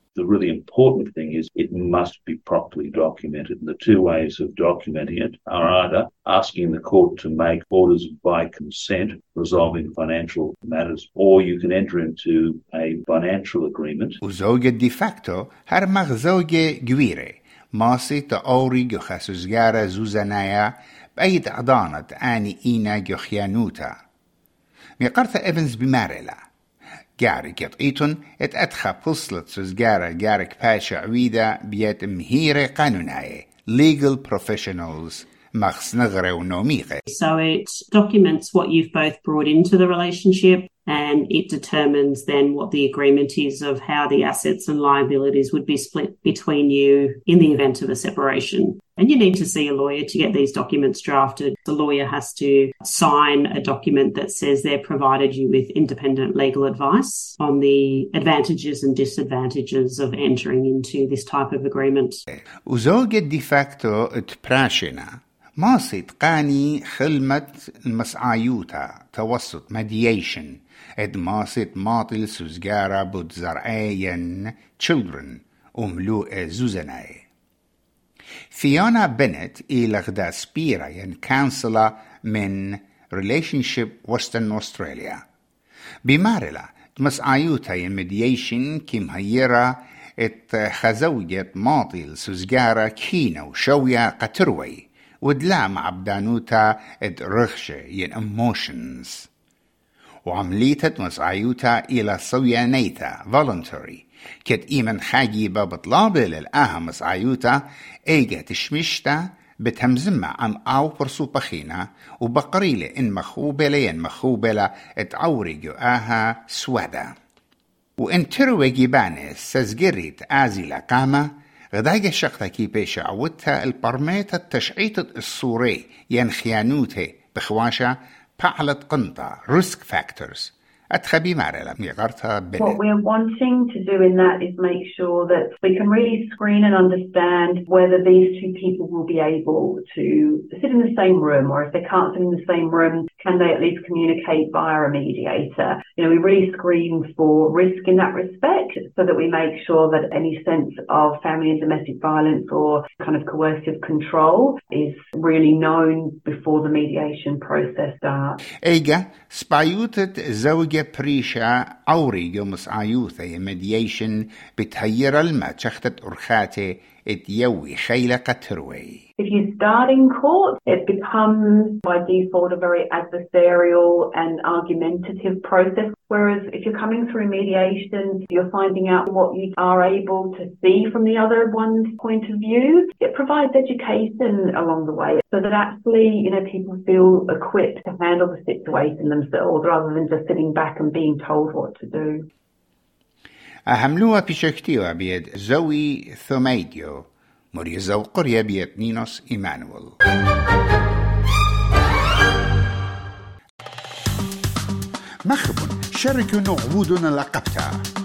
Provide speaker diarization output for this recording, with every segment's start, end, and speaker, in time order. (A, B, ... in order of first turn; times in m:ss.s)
0:00.1-0:14.2 A
0:14.2-0:24.0 B
0:25.0-0:26.4 B
0:27.2-0:37.0 B
0:37.1-1:02.2 C
1:02.6-1:17.2 B
1:18.5-1:25.2 B
1:26.0-1:39.3 B
1:40.2-1:57.1 B
1:58.0-2:12.8 B
2:12.6-2:38.4 D
2:38.6-2:49.0 B
2:49.2-3:12.3 D
3:13.6-3:19.9 B
3:25.2-3:27.8 B